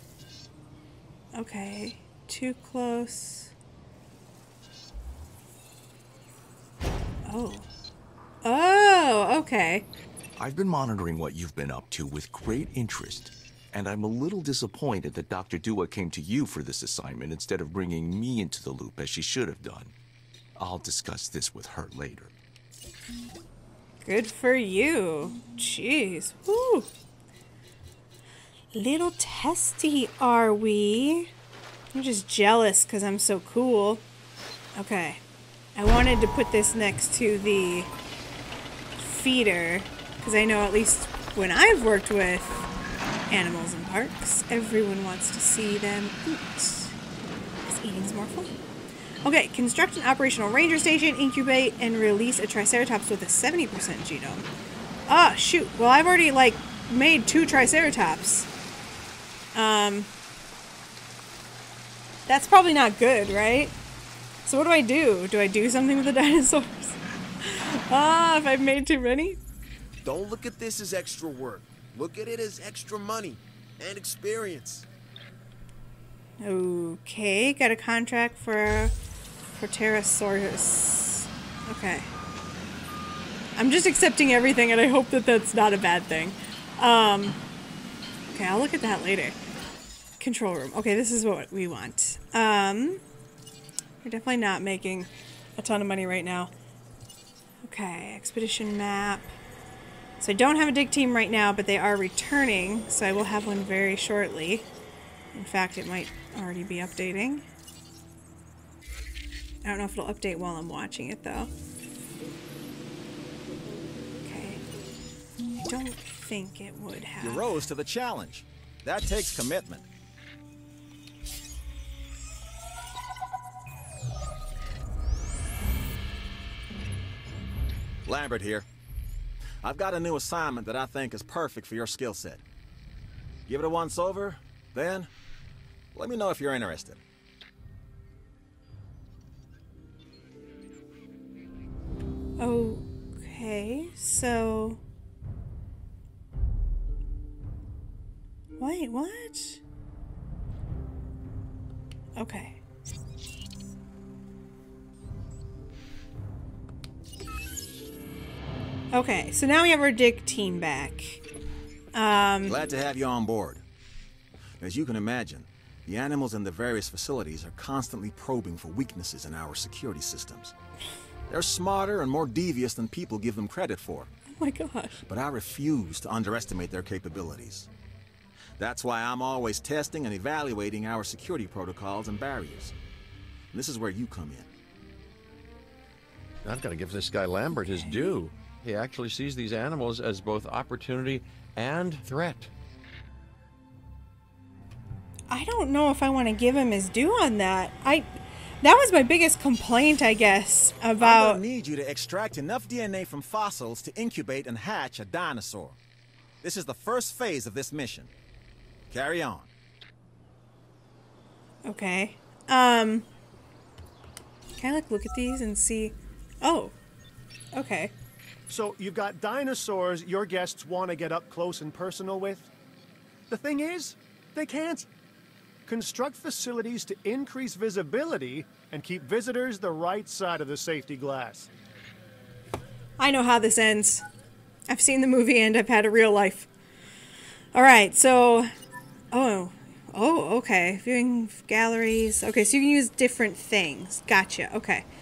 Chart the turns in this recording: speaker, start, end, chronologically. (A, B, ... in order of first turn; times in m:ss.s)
0:01.3-0:03.5 A
0:07.2-0:07.6 A
0:08.4-0:09.9 A
0:10.4-0:19.9 B
0:20.6-0:22.3 B
0:24.0-0:26.9 A
0:28.7-0:31.3 A
0:31.9-0:34.0 A
0:34.7-0:35.2 A
0:35.8-0:37.9 A
0:39.0-0:42.7 A
0:43.3-0:47.0 A
0:47.6-0:48.5 A
0:49.2-0:54.5 A
0:55.1-0:58.5 A
0:59.5-1:00.1 A
1:02.3-1:03.8 A
1:04.4-1:09.4 A
1:10.0-1:14.8 C
1:16.4-1:18.9 A
1:19.5-1:22.1 A
1:23.6-1:27.4 A
1:28.3-1:29.4 A
1:30.2-1:33.0 A
1:34.0-1:36.5 A
1:37.6-1:39.3 A
1:40.2-1:44.7 A
1:45.3-1:47.4 A
1:49.6-1:51.5 A
1:54.2-1:54.6 A
1:55.6-1:57.6 A
1:57.2-1:59.9 D
2:08.0-2:08.6 D
2:09.6-2:12.4 D
2:13.5-2:15.1 D
2:15.9-2:17.0 D
2:22.4-2:24.8 A
2:28.6-2:29.6 A
2:32.2-2:32.6 A
2:38.9-2:41.2 A
2:41.9-2:42.6 A
2:42.4-2:43.6 D
2:44.6-2:50.5 D
2:51.3-2:54.1 D
2:54.4-2:55.0 A
2:55.1-2:57.7 D
2:58.6-3:02.7 D
3:03.5-3:04.5 D
3:06.4-3:12.5 E
3:07.7-3:08.2 A
3:15.3-3:18.1 A
3:18.6-3:21.4 A
3:21.0-3:25.8 D
3:26.4-3:28.1 D
3:28.9-3:29.5 D
3:31.6-3:33.1 A
3:34.6-3:36.7 A
3:37.5-3:37.9 A
3:38.5-3:42.5 F
3:43.3-3:44.9 F
3:45.6-3:51.5 F
3:53.0-3:54.0 A
3:54.7-3:56.5 A
3:57.5-3:58.5 A
3:59.1-4:04.8 A